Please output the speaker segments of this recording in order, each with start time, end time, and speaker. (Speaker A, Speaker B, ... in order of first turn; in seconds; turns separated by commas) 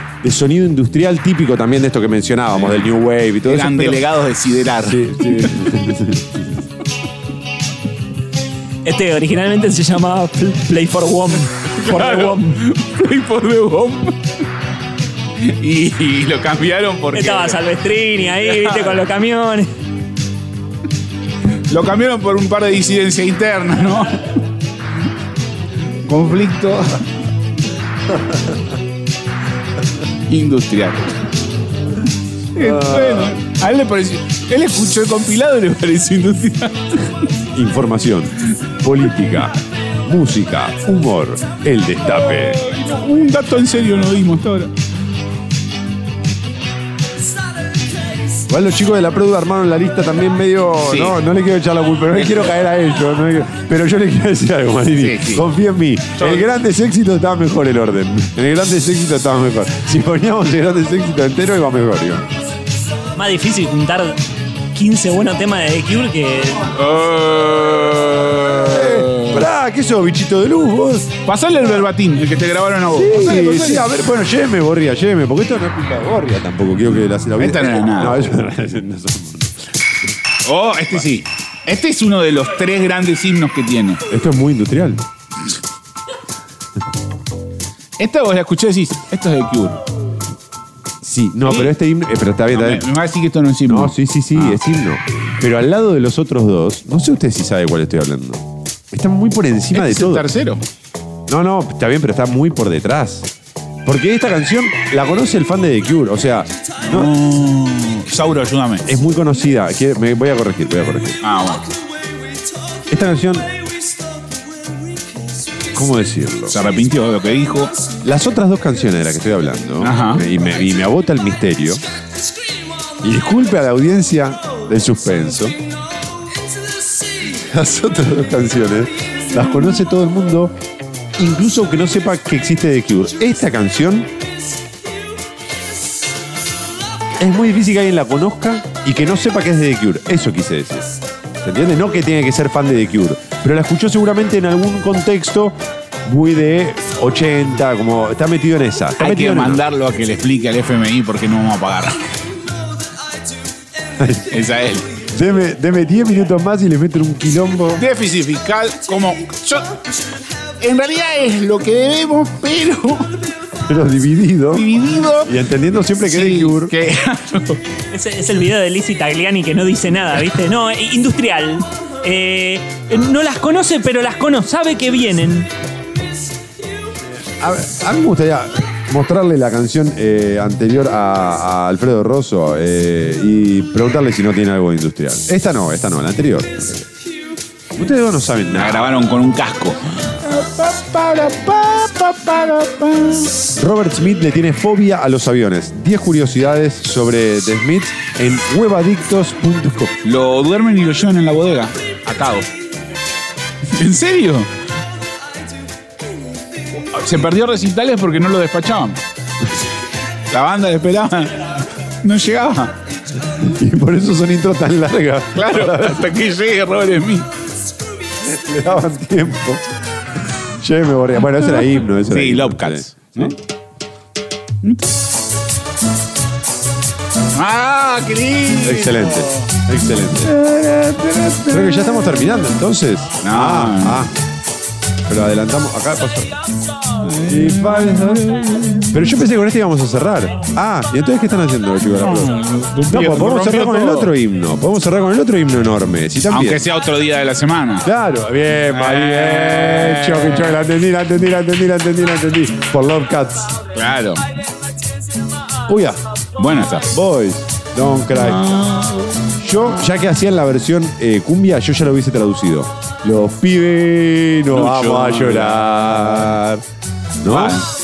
Speaker A: 0.2-4.0, Speaker B: 3.4-5.8, Speaker A: 4.8-6.6, Speaker C: 8.8-12.5, Speaker B: 11.8-14.2, Speaker B: 15.4-17.6, Speaker C: 17.1-19.7, Speaker B: 18.4-19.0, Speaker B: 21.7-24.4, Speaker B: 26.0-27.0, Speaker B: 30.3-31.1, Speaker B: 32.5-37.1, Speaker A: 32.6-33.4, Speaker A: 37.5-42.6, Speaker B: 42.2-44.7, Speaker A: 48.5-62.3, Speaker B: 50.8-51.1, Speaker B: 55.0-55.5, Speaker B: 56.2-56.5, Speaker C: 63.1-64.2, Speaker C: 64.7-66.8, Speaker B: 66.8-69.4, Speaker A: 68.4-71.1, Speaker B: 71.2-73.9, Speaker A: 72.9-79.8, Speaker B: 77.4-78.3, Speaker B: 80.4-84.0, Speaker A: 84.1-85.0, Speaker B: 88.0-89.8, Speaker A: 91.0-92.8, Speaker B: 91.4-91.7, Speaker B: 92.5-94.6, Speaker A: 93.7-100.3, Speaker B: 99.7-100.6, Speaker A: 101.3-103.3, Speaker A: 103.8-107.1, Speaker B: 106.8-108.9, Speaker A: 108.8-111.2, Speaker B: 111.2-111.7, Speaker A: 112.9-113.5, Speaker A: 115.7-116.5, Speaker B: 116.5-117.7, Speaker A: 118.0-121.8, Speaker B: 119.8-120.2, Speaker A: 123.0-125.6, Speaker A: 127.2-130.5, Speaker A: 131.2-134.1, Speaker A: 137.2-140.9, Speaker A: 141.4-149.6, Speaker B: 149.0-152.1, Speaker A: 154.0-154.3, Speaker B: 154.3-154.9, Speaker A: 155.1-157.8, Speaker B: 157.8-159.8, Speaker B: 160.6-163.2, Speaker A: 163.6-164.7, Speaker B: 164.5-165.3, Speaker A: 165.2-166.7, Speaker B: 166.1-167.6, Speaker C: 167.9-175.5, Speaker A: 177.2-186.9, Speaker A: 187.7-189.0, Speaker B: 188.5-193.4, Speaker A: 193.5-199.9, Speaker B: 200.0-202.5, Speaker B: 203.7-204.5, Speaker B: 206.9-209.0, Speaker B: 210.3-212.8, Speaker A: 213.3-216.1, Speaker B: 215.3-217.3, Speaker A: 218.2-219.6, Speaker A: 220.6-223.3, Speaker B: 222.0-223.3, Speaker B: 224.6-224.9, Speaker B: 227.3-229.4, Speaker A: 228.6-230.3, Speaker B: 230.2-232.0, Speaker A: 231.5-234.1, Speaker B: 233.2-234.1, Speaker A: 235.1-236.4, Speaker B: 237.0-239.1, Speaker A: 237.2-238.3, Speaker A: 238.9-242.3, Speaker B: 242.0-244.1, Speaker A: 242.9-246.6, Speaker B: 246.3-247.9, Speaker A: 247.8-253.5, Speaker B: 248.7-250.6, Speaker B: 253.7-254.3, Speaker A: 255.7-256.0, Speaker B: 256.4-256.9, Speaker A: 256.9-258.5, Speaker B: 258.1-259.4, Speaker A: 259.4-266.6, Speaker B: 264.5-265.9, Speaker A: 267.2-267.6, Speaker B: 267.2-267.7